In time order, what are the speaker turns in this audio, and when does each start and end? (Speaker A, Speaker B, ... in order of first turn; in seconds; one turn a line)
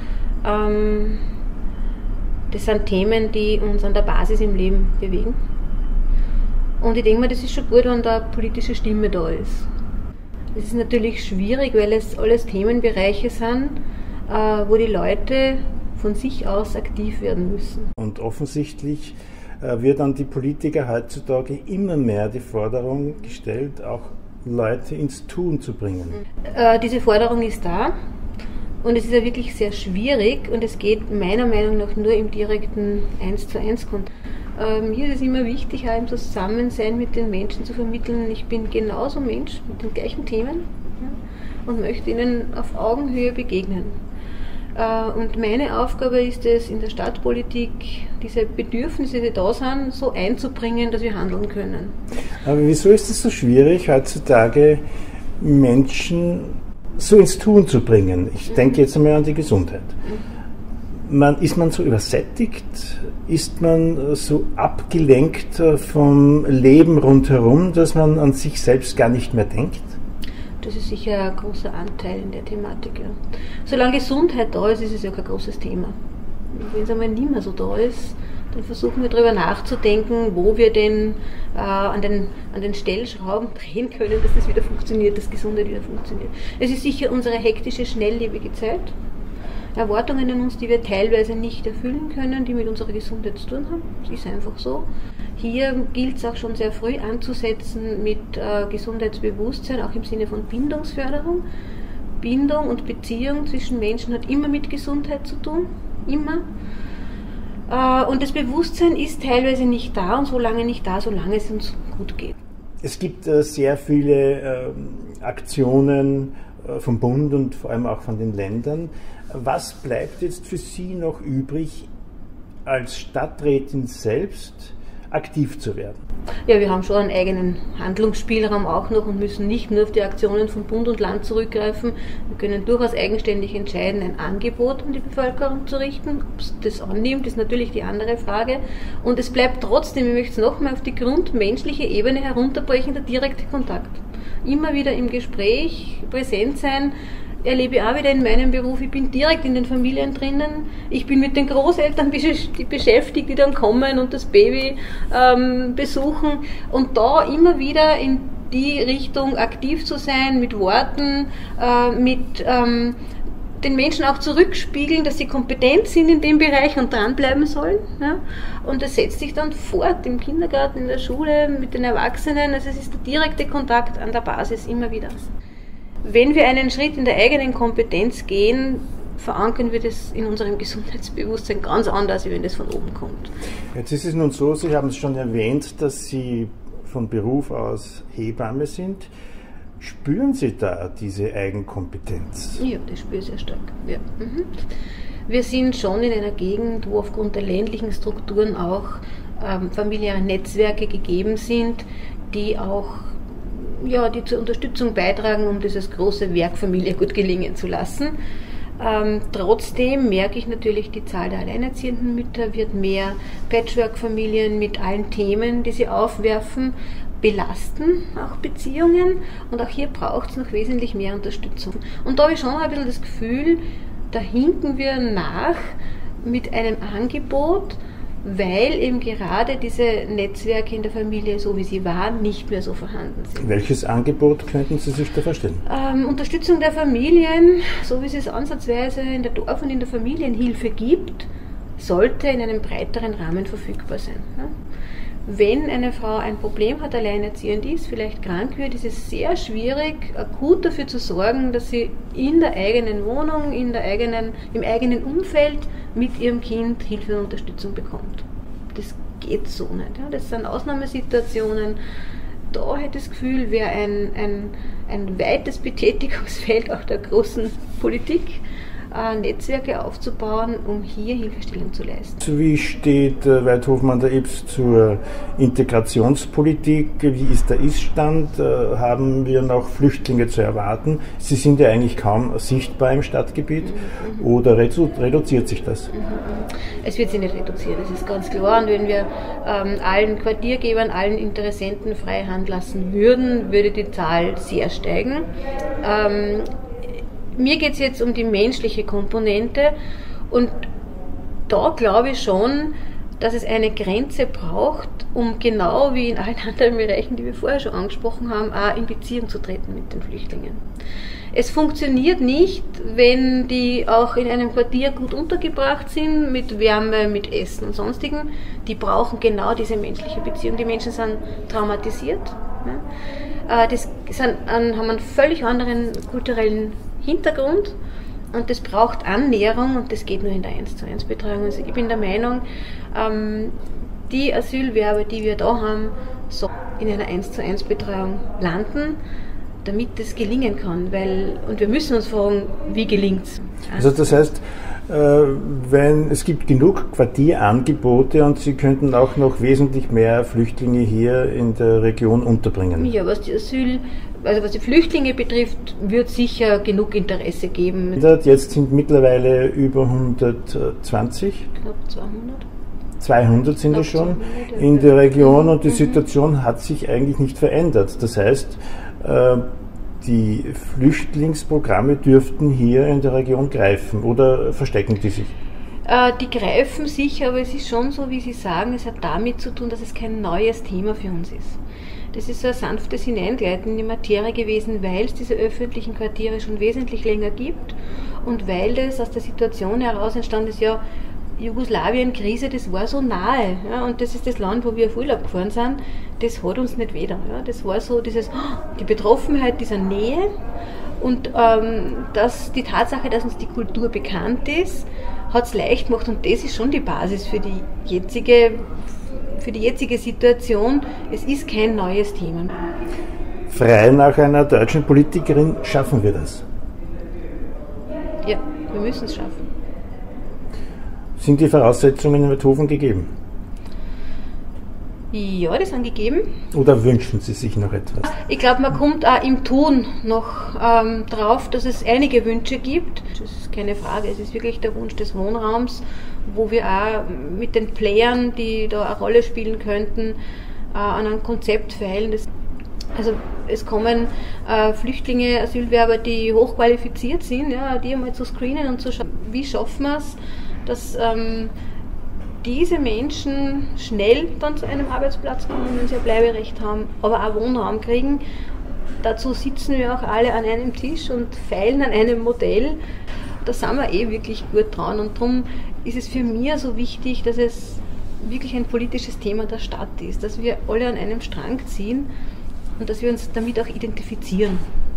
Speaker A: 0.4-1.2
Speaker A: 2.5-5.4
Speaker A: 6.8-9.7
Speaker A: 10.5-17.9
Speaker B: 18.0-26.2
Speaker A: 26.4-27.9
Speaker A: 28.8-41.1
Speaker A: 41.7-44.0
Speaker A: 44.8-51.9
Speaker B: 52.4-54.8
Speaker B: 55.4-59.9
Speaker B: 61.1-70.0
Speaker A: 70.6-76.0
Speaker A: 76.5-89.0
Speaker A: 89.8-101.4
Speaker A: 102.2-106.4
Speaker A: 107.7-112.3
Speaker B: 112.8-121.9
Speaker B: 122.7-126.0
Speaker A: 126.5-163.0
Speaker A: 163.6-175.3
Speaker A: 176.0-183.3
Speaker B: 183.7-189.1
Speaker B: 189.8-192.6
Speaker A: 192.6-194.6
Speaker A: 195.3-208.2
Speaker A: 208.8-233.5
Speaker B: 233.4-235.6
Speaker A: 235.7-244.5
Speaker A: 245.3-261.8
Speaker A: 262.5-272.2
Speaker B: 272.2-285.9
Speaker A: 283.6-284.2
Speaker A: 285.9-295.3
Speaker A: 295.8-296.5
Speaker A: 297.4-299.8
Speaker A: 300.3-300.7
Speaker A: 301.5-310.6
Speaker A: 311.3-322.8
Speaker A: 323.5-327.8
Speaker A: 328.3-333.6
Speaker A: 334.1-339.0
Speaker A: 339.6-343.9
Speaker B: 343.8-352.9
Speaker A: 352.8-358.0
Speaker B: 358.0-361.5
Speaker A: 361.6-362.5
Speaker B: 363.0-369.4
Speaker A: 363.7-366.0
Speaker B: 370.0-375.3
Speaker A: 375.9-381.6
Speaker A: 382.1-390.8
Speaker A: 391.4-400.3
Speaker A: 401.0-412.6
Speaker B: 413.5-416.4
Speaker A: 418.2-419.5
Speaker B: 421.2-423.1
Speaker A: 425.1-426.2
Speaker B: 426.5-428.1
Speaker A: 428.1-440.2
Speaker A: 440.7-442.3
Speaker A: 443.0-451.5
Speaker A: 452.4-458.2
Speaker A: 459.0-462.8
Speaker A: 463.4-472.1
Speaker A: 472.8-474.6